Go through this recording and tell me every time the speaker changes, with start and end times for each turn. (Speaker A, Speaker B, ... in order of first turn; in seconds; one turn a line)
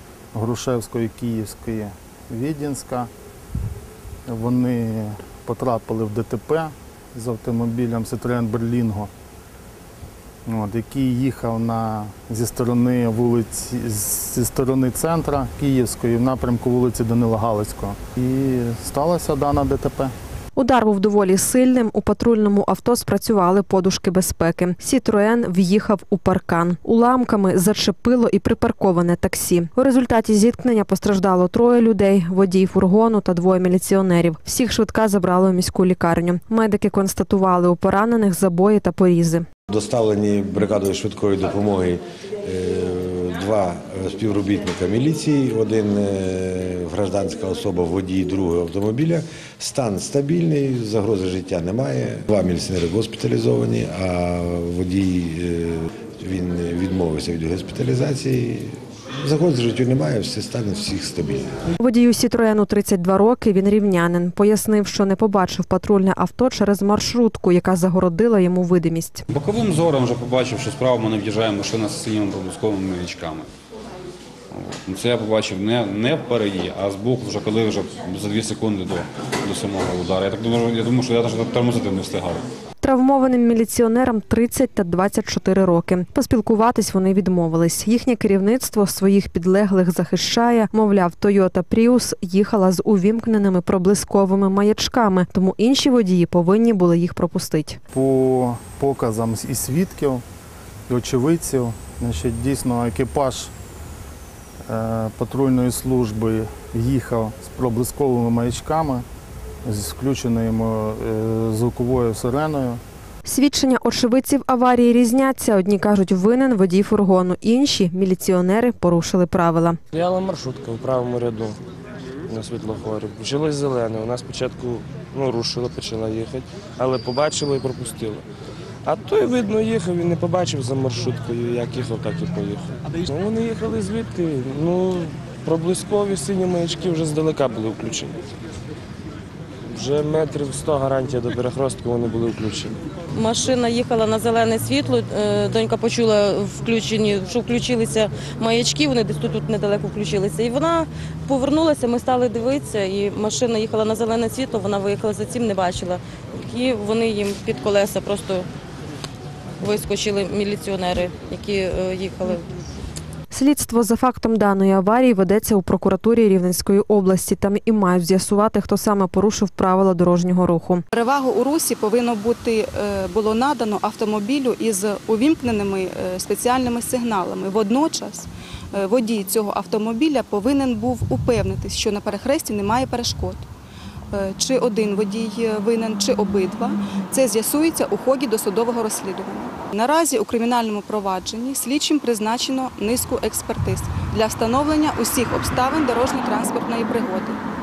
Speaker A: 0.3-3.1
Speaker A: 4.3-9.1
Speaker A: 10.4-20.1
Speaker B: 20.6-39.5
Speaker C: 39.7-61.6
Speaker B: 61.8-69.2
Speaker D: 69.3-73.5
Speaker D: 74.5-82.4
Speaker B: 82.8-97.8
Speaker A: 97.9-100.2
Speaker A: 100.9-103.5
Speaker A: 104.7-109.0
Speaker A: 109.6-112.8
Speaker B: 113.2-119.8
Speaker E: 119.9-121.6
Speaker E: 122.3-128.2
Speaker E: 128.8-138.2
Speaker E: 139.7-142.8
Speaker F: 143.1-158.5
Speaker F: 159.6-162.5
Speaker B: 163.3-170.8
Speaker G: 170.9-183.4
Speaker G: 184.1-197.4